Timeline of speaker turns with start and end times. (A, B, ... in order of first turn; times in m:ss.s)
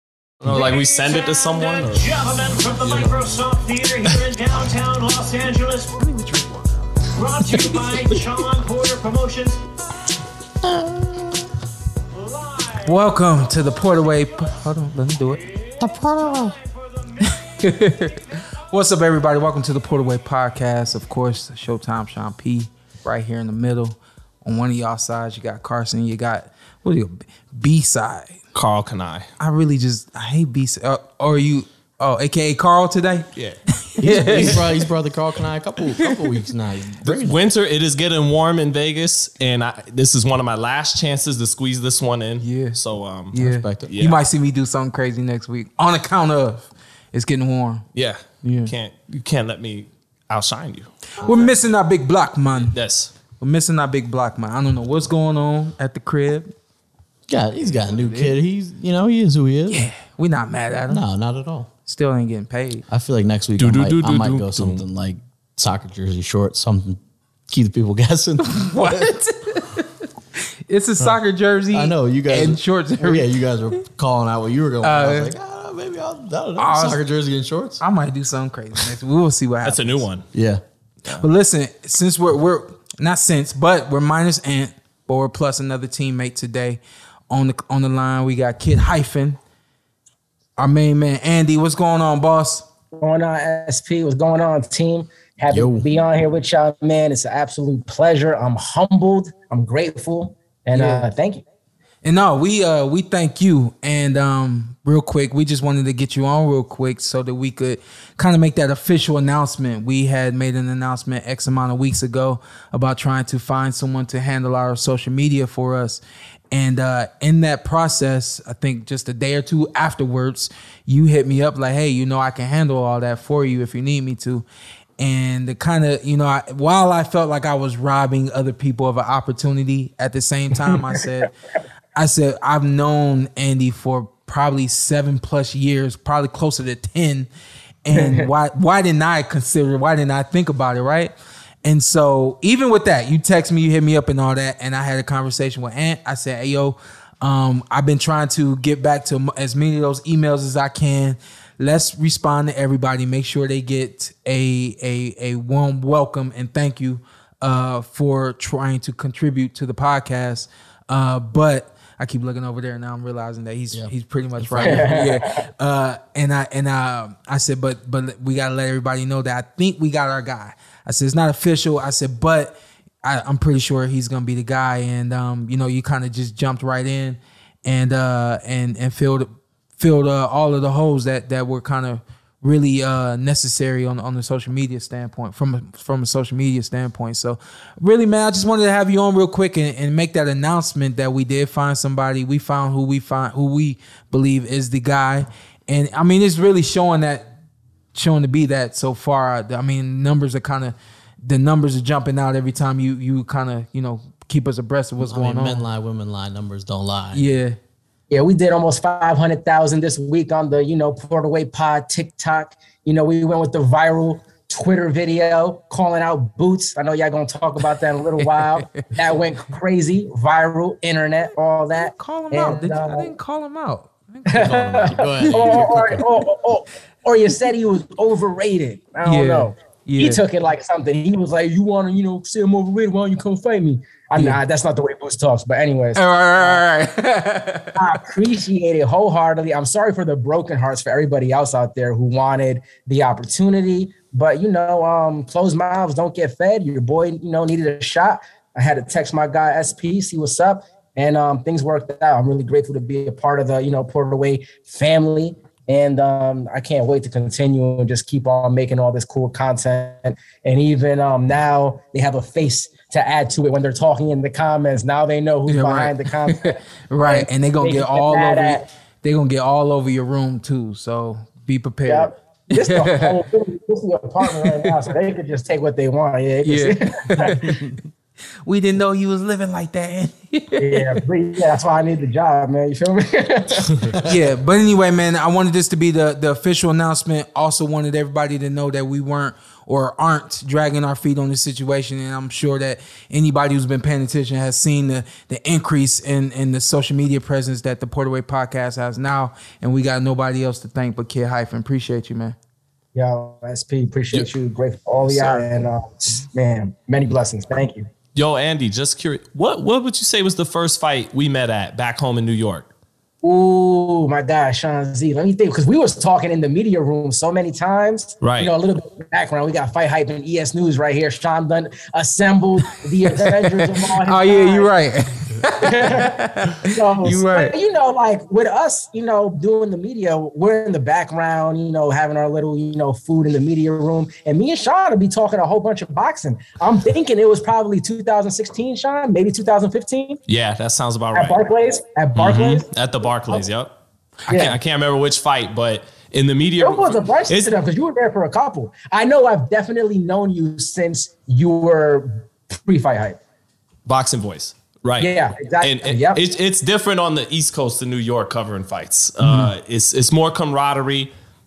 0:00.4-0:03.4 A
0:03.3-0:04.1 B
0:04.7-0:05.7 B
0:05.8-0:07.2 C
0:07.2-0:09.5 B
0:07.5-0:08.4 D
0:10.6-0:11.5 D
0:12.7-0:15.5 C
0:15.8-0:16.6 D
0:17.2-0:28.4 C
0:28.5-0:29.3 A
0:29.4-0:33.3 C
0:33.9-0:34.6 C
0:34.0-0:37.4 D
0:34.3-0:34.7 A
0:37.0-0:43.4 A
0:42.4-0:42.8 C
0:43.3-0:47.8 C
0:43.3-0:44.0 D
0:43.9-0:44.2 A
0:47.9-0:50.9 A
0:48.4-0:48.7 C
0:51.2-0:52.8 C
0:52.7-0:53.1 A
0:53.4-0:56.5 C
0:57.3-0:59.8 D
0:57.7-0:58.3 C
0:59.7-1:01.0 C
1:00.9-1:01.7 D
1:01.9-1:02.8 C
1:02.9-1:09.1 D
1:03.6-1:04.8 A
1:08.4-1:09.9 C
1:10.7-1:13.3 C
1:11.7-1:17.8 D
1:14.8-1:15.3 C
1:16.6-1:17.0 C
1:17.8-1:20.0 C
1:19.6-1:20.2 A
1:20.3-1:20.6 D
1:21.2-1:26.8 C
1:27.3-1:29.4 C
1:30.6-1:32.7 C
1:32.9-1:41.4 E
1:35.5-1:35.9 D
1:40.7-1:41.1 C
1:42.0-2:04.4 C
2:05.0-2:11.3 C
2:12.0-2:17.3 C
2:17.8-2:21.1 C
2:17.9-2:18.3 E
2:21.6-3:17.3 C
2:43.7-2:45.1 D
2:44.6-2:45.2 E
3:17.9-3:25.6 C
3:25.0-3:27.2 D
3:27.1-3:27.6 C
3:28.1-3:43.1 E
3:41.8-3:45.5 C
3:44.3-3:56.6 E
3:44.3-3:46.0 D
3:49.0-3:50.2 C
3:55.9-3:57.9 C
3:57.8-4:28.6 E
4:25.4-4:33.2 C
4:31.9-4:37.6 E
4:34.2-4:34.8 C
4:36.4-4:37.7 C
4:38.4-4:41.0 C
4:40.6-4:44.0 E
4:44.0-5:02.4 C
5:02.9-5:07.9 E
5:05.1-5:05.4 A
5:08.1-5:12.7 A
5:13.2-5:24.7 E
5:18.2-5:18.5 A
5:23.1-5:27.5 C
5:25.5-5:40.2 E
5:40.3-5:41.4 A
5:41.1-5:42.6 E
5:42.2-5:43.8 A
5:44.3-5:47.6 A
5:44.3-5:44.6 E
5:46.6-5:53.2 E
5:53.8-6:01.1 A
5:55.0-5:56.2 E
5:59.2-5:59.5 C